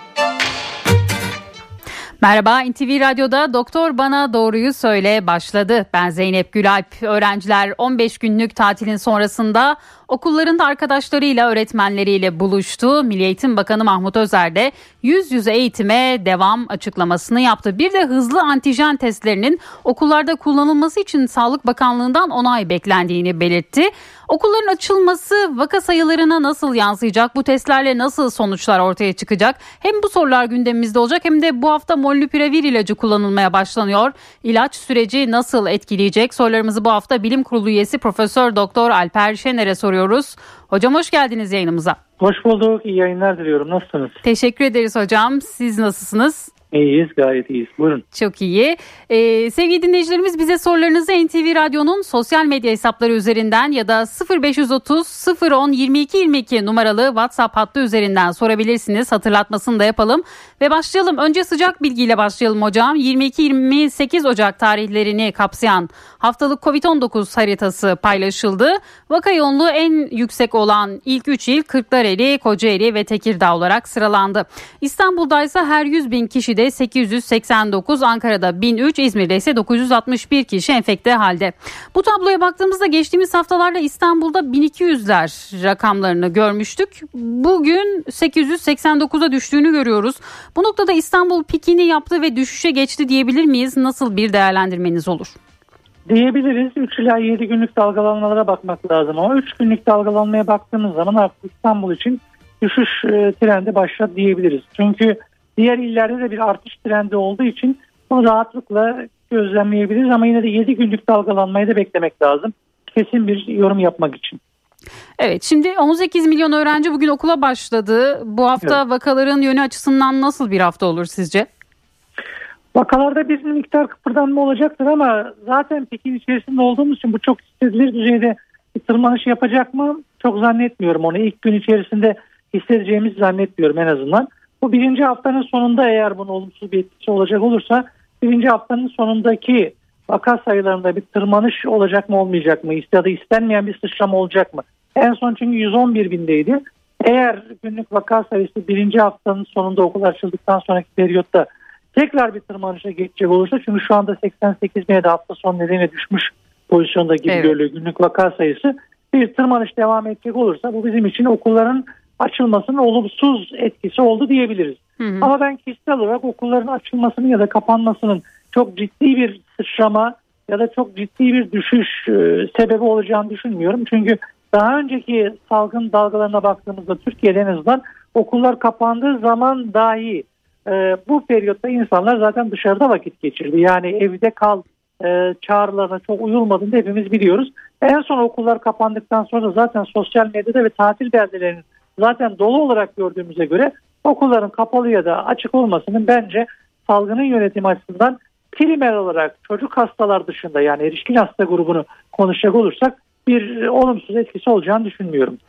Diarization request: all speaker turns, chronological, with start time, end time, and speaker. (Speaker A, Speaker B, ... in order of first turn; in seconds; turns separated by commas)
Speaker A: 2.2-42.0, Speaker B: 42.2-44.2, Speaker A: 44.2-46.5, Speaker B: 46.7-48.0, Speaker A: 48.1-95.3, Speaker B: 96.1-114.4, Speaker A: 115.2-121.5, Speaker B: 122.7-205.4, Speaker A: 157.3-157.5, Speaker A: 165.0-165.3